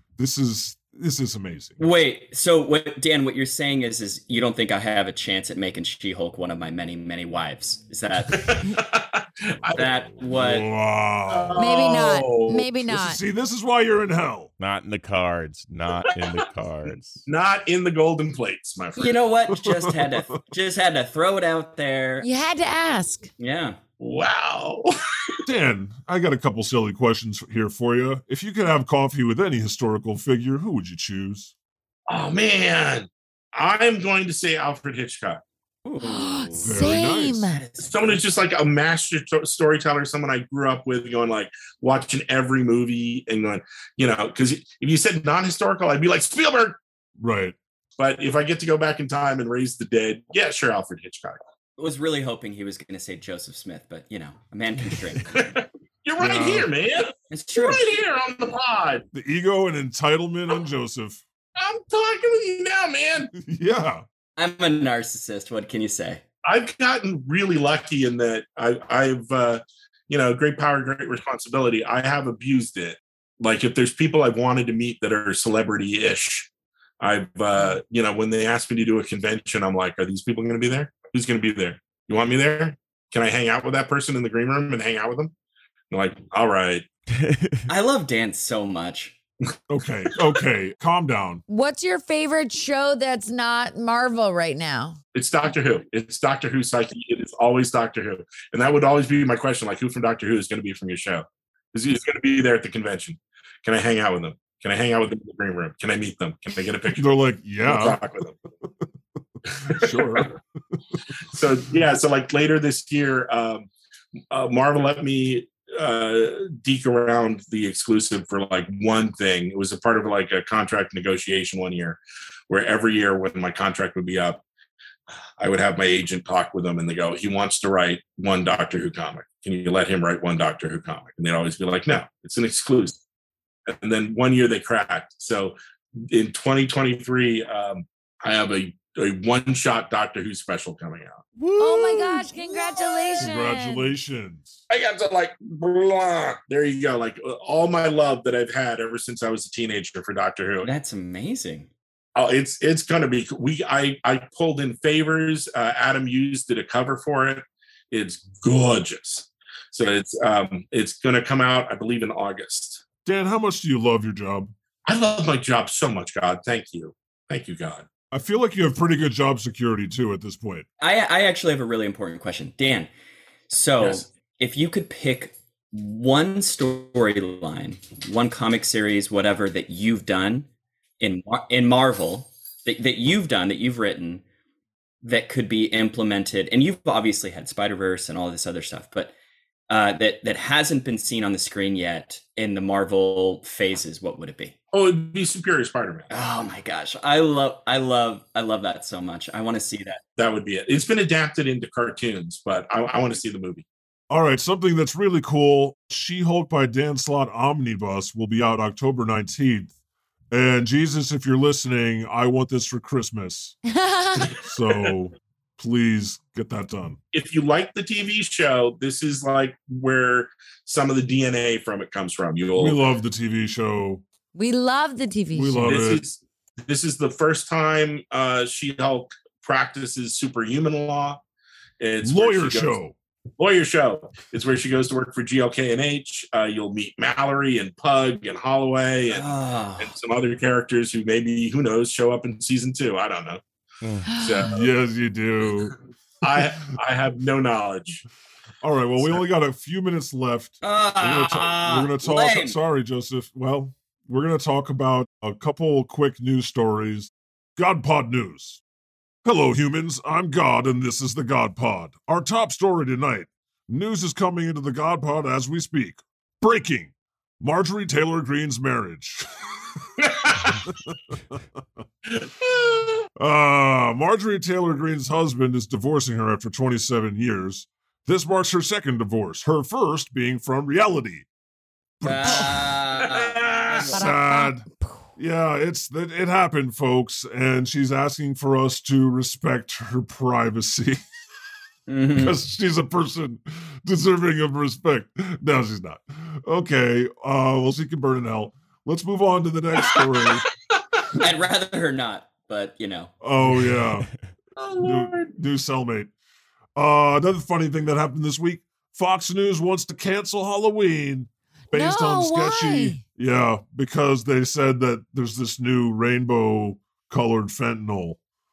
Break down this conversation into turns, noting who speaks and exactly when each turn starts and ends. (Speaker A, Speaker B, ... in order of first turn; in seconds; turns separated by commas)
Speaker A: 0.2-1.8, Speaker B: 1.8-8.6, Speaker C: 8.3-9.8, Speaker B: 9.8-10.7, Speaker A: 10.3-11.6, Speaker C: 11.3-12.7, Speaker D: 11.6-13.2, Speaker A: 12.9-14.5, Speaker E: 14.6-17.2, Speaker C: 16.1-16.4, Speaker C: 17.3-19.2, Speaker B: 19.0-22.3, Speaker A: 19.5-20.4, Speaker D: 22.2-23.3, Speaker B: 23.4-23.8, Speaker C: 24.0-25.4, Speaker A: 25.4-31.5, Speaker C: 32.1-35.4, Speaker B: 35.9-36.9, Speaker D: 36.0-37.6, Speaker A: 36.6-37.5, Speaker B: 37.5-38.2, Speaker C: 37.8-46.8, Speaker A: 47.2-47.6, Speaker C: 48.0-51.4, Speaker B: 51.8-55.6, Speaker C: 55.3-59.0, Speaker A: 56.2-56.7, Speaker B: 57.3-57.8, Speaker A: 59.1-61.2, Speaker C: 61.6-63.3, Speaker A: 63.4-64.0, Speaker B: 64.4-66.2, Speaker C: 66.4-76.5, Speaker C: 77.0-85.3, Speaker C: 85.9-86.8, Speaker E: 87.2-87.7, Speaker B: 87.7-89.2, Speaker A: 89.7-91.4, Speaker D: 91.5-95.0, Speaker C: 95.1-107.1, Speaker A: 107.0-108.0, Speaker C: 107.6-108.4, Speaker A: 109.4-111.0, Speaker C: 109.7-110.3, Speaker C: 111.3-113.7, Speaker C: 114.3-124.4, Speaker C: 125.4-133.0, Speaker C: 133.7-141.2, Speaker E: 141.4-142.1, Speaker D: 141.6-143.9, Speaker C: 142.5-143.3, Speaker A: 143.2-144.6, Speaker C: 144.7-150.7, Speaker B: 150.6-151.7, Speaker C: 152.2-162.8, Speaker A: 163.1-164.5, Speaker C: 164.9-167.9, Speaker A: 168.1-170.7, Speaker B: 170.8-172.9, Speaker B: 173.5-180.5, Speaker C: 173.8-174.1, Speaker B: 181.0-184.2, Speaker B: 185.0-189.1, Speaker B: 189.7-194.6, Speaker C: 194.7-196.1, Speaker B: 196.1-200.0, Speaker C: 200.2-203.7, Speaker A: 204.1-209.7, Speaker A: 210.3-213.6, Speaker D: 213.7-214.3, Speaker C: 214.2-214.9, Speaker A: 214.4-217.0, Speaker C: 217.1-222.8, Speaker A: 222.6-224.0, Speaker D: 224.3-225.7, Speaker A: 225.3-226.0, Speaker C: 225.6-231.2, Speaker C: 231.8-232.8, Speaker A: 232.0-233.0, Speaker C: 233.4-243.4, Speaker B: 239.1-240.0, Speaker E: 243.8-244.1, Speaker D: 244.1-244.5, Speaker C: 244.2-244.7, Speaker A: 244.5-245.8, Speaker C: 246.2-248.1, Speaker A: 248.6-258.6, Speaker B: 250.6-252.6, Speaker A: 259.2-271.4, Speaker C: 270.0-270.6, Speaker C: 272.1-273.1, Speaker A: 273.2-281.3, Speaker A: 282.0-282.7, Speaker B: 282.0-284.0, Speaker D: 282.2-282.6, Speaker C: 283.0-283.9, Speaker D: 283.9-285.1, Speaker A: 283.9-284.7, Speaker A: 285.2-291.0, Speaker B: 291.9-292.4, Speaker A: 292.2-300.4, Speaker C: 299.9-300.3, Speaker B: 301.2-303.1, Speaker A: 303.2-304.1, Speaker C: 304.6-305.3, Speaker A: 304.8-306.1, Speaker A: 306.8-318.2, Speaker D: 311.7-313.0